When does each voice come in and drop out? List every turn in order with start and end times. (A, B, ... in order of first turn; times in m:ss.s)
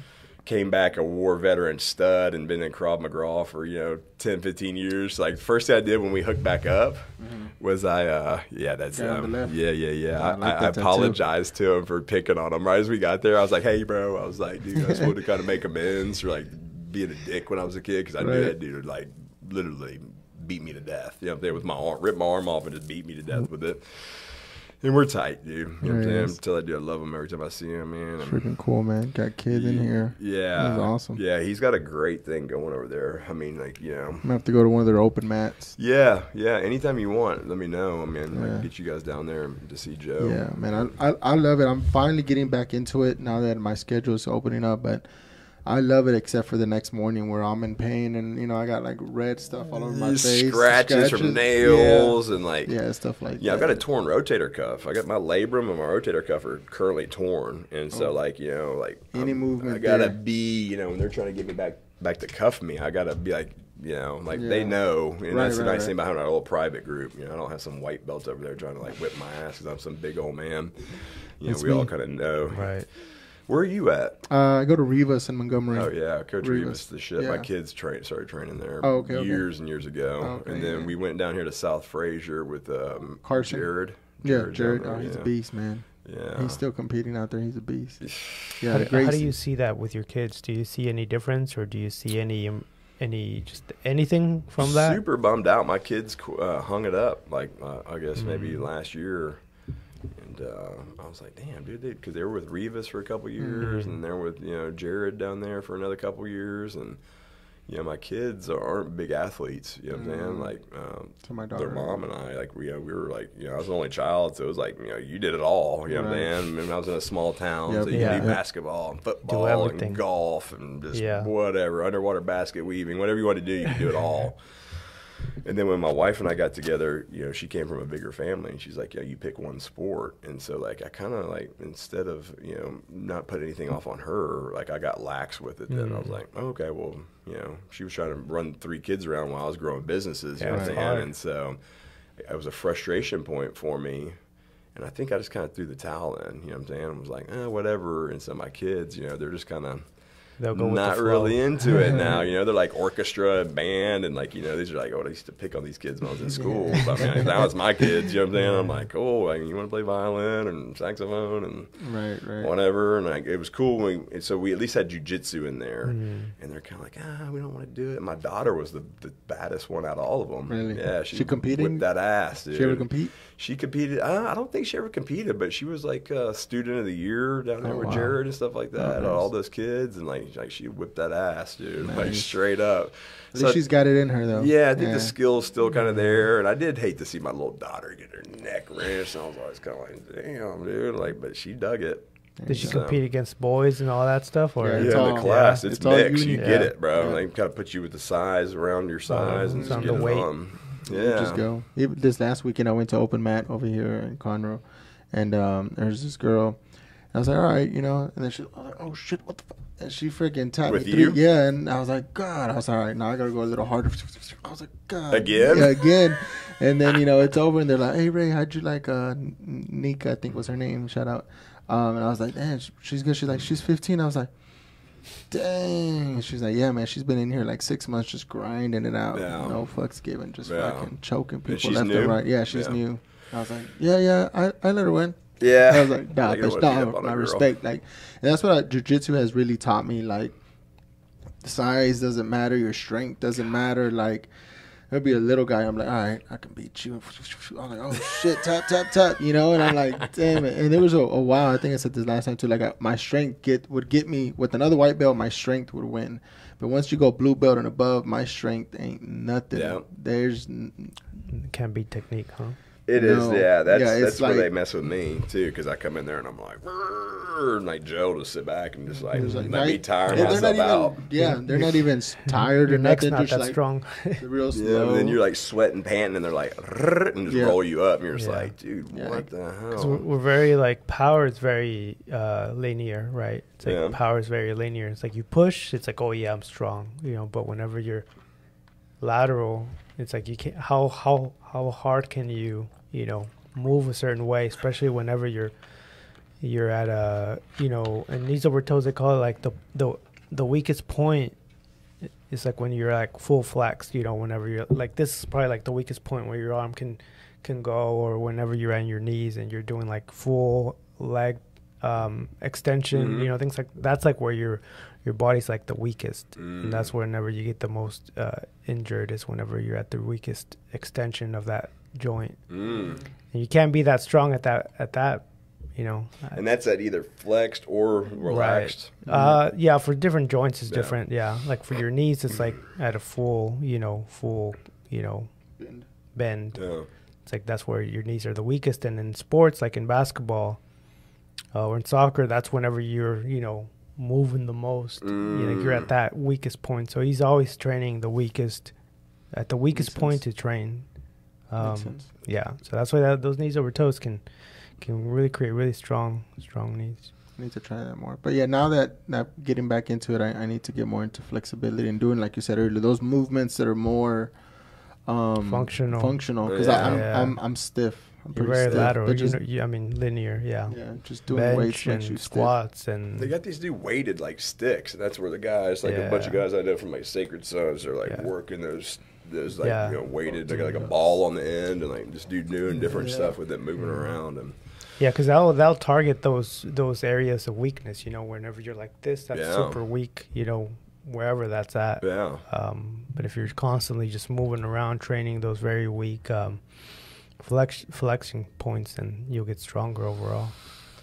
0:00.4-0:28.4 A
0:07.2-0:07.5 B
0:08.9-0:11.2 B
0:14.8-0:15.1 B
0:18.2-0:18.5 B
0:25.8-0:26.4 B
0:28.2-0:31.2 B
0:29.5-0:34.2 A
0:34.2-0:35.8 B
0:35.8-0:40.9 A
0:38.3-0:38.6 B
0:40.2-0:45.1 B
0:45.6-0:53.8 B
0:49.9-0:52.7 A
0:53.4-1:14.2 A
0:59.1-1:00.2 B
1:04.3-1:05.9 B
1:11.4-1:11.9 B
1:12.5-1:12.9 C
1:14.3-1:17.5 B
1:15.7-1:25.3 A
1:18.8-1:19.4 B
1:20.2-1:20.9 B
1:23.2-1:23.7 B
1:24.2-1:29.3 B
1:26.0-1:26.6 A
1:28.0-1:28.6 A
1:28.7-1:35.0 C
1:34.6-1:39.4 A
1:38.2-1:38.6 C
1:40.1-1:47.0 A
1:43.4-1:43.7 B
1:43.6-1:44.0 C
1:47.7-2:04.9 A
1:49.9-1:50.5 B
1:51.2-1:52.0 B
1:55.9-1:56.3 B
1:57.7-1:58.4 B
1:57.9-1:58.4 C
1:59.3-2:00.0 C
2:00.9-2:01.3 C
2:05.4-2:21.6 A
2:15.7-2:16.2 C
2:20.4-2:21.1 C
2:20.5-2:20.8 B
2:22.2-2:24.2 A
2:24.7-2:29.9 A
2:30.4-2:32.1 C
2:30.5-2:41.8 A
2:31.9-2:32.2 B
2:36.2-2:37.4 B
2:38.3-2:38.8 C
2:41.8-2:42.5 B
2:42.4-3:03.6 A
2:45.8-2:46.3 C
2:50.5-2:51.9 B
2:52.5-2:53.1 B
2:57.6-2:58.2 B
2:58.7-2:59.3 B
3:01.8-3:02.3 B
3:03.3-3:05.1 B
3:04.3-3:13.0 A
3:12.4-3:12.8 B
3:12.5-3:15.6 C
3:14.6-3:17.2 B
3:14.7-3:21.4 A
3:16.3-3:16.7 C
3:19.1-3:20.3 C
3:19.2-3:20.1 B
3:20.8-3:26.6 B
3:27.1-3:44.3 B
3:30.6-3:31.2 A
3:35.1-3:35.8 A
3:45.3-4:00.3 B
3:49.1-3:49.6 A
3:50.4-3:50.9 A
3:51.4-3:52.8 A
3:55.4-3:57.5 A
4:01.4-4:04.3 B
4:04.9-4:21.0 B
4:19.5-4:19.8 A
4:21.3-4:22.6 C
4:22.9-4:31.0 A
4:22.9-4:24.5 B
4:29.1-4:30.5 C
4:29.1-4:35.2 B
4:31.1-4:34.2 C
4:34.5-4:40.0 A
4:37.3-4:37.6 B
4:38.2-4:38.5 C
4:38.9-4:39.2 B
4:39.7-4:48.1 C
4:43.6-4:44.0 A
4:49.0-4:55.6 C
4:56.4-5:01.3 C
5:02.3-5:22.6 C
5:12.9-5:13.3 A
5:16.4-5:16.9 A
5:22.5-5:23.0 A
5:23.3-5:26.4 C
5:26.3-5:29.3 A
5:28.2-5:35.3 C
5:29.0-5:29.4 B
5:30.7-5:31.0 A
5:35.6-5:35.8 B
5:36.1-5:40.6 C
5:36.5-5:36.9 A
5:41.5-5:48.8 C
5:45.0-5:45.9 A
5:49.3-5:50.9 C
5:49.7-5:50.2 B
5:51.5-5:57.1 C
5:51.6-5:52.1 B
5:57.4-6:04.3 B
6:05.0-6:09.4 B
6:05.4-6:07.4 C
6:06.4-6:07.0 A
6:08.3-6:13.3 C
6:10.7-6:12.5 B
6:13.2-6:24.6 A
6:15.8-6:16.4 C
6:19.6-6:20.0 C
6:20.4-6:21.1 B
6:22.8-6:23.4 B
6:25.0-6:40.6 C
6:29.3-6:29.8 A
6:32.0-6:32.4 A